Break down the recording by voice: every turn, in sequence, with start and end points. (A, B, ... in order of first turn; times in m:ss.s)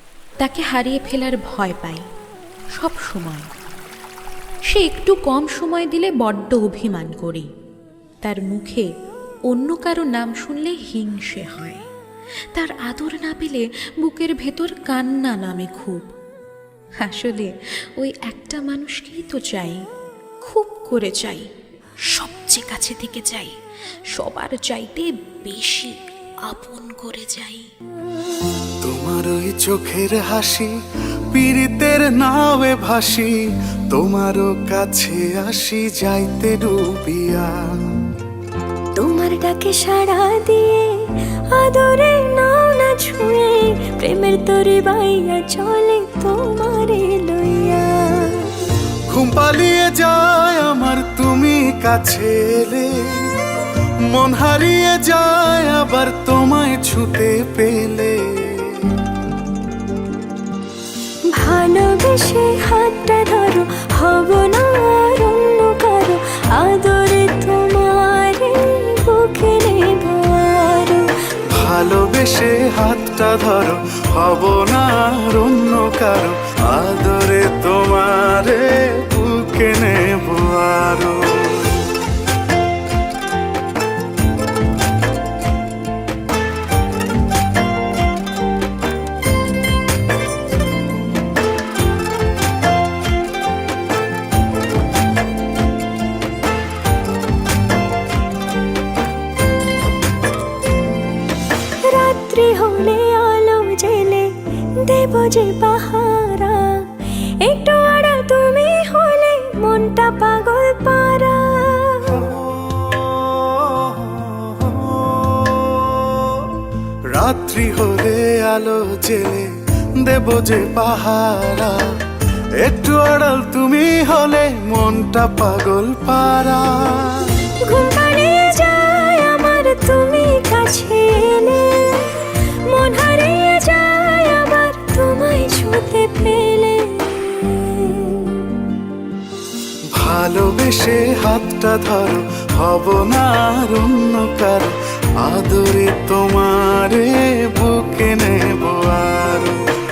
0:00.4-0:02.0 A
0:02.8-0:03.5 A
0:04.7-0:07.5 A
0:08.2-0:08.9 A
0:09.5-0:11.9 A
0:12.5-0:16.1 A
0:17.0-0:19.8 A
0:20.4-0:21.5 A
0:22.1-0:23.5 A
0:24.1-0:27.7 A
0:28.8-0:30.8 B
0:31.3-0:37.9 B
0:38.9-0:48.8 C
0:49.1-0:53.3 B
0:54.1-0:59.0 B
1:01.3-1:11.1 C
1:11.5-1:21.8 B
1:41.8-1:52.3 C
1:57.1-2:02.0 B
2:02.6-2:07.5 B
2:07.5-2:18.7 C
2:19.9-2:29.6 B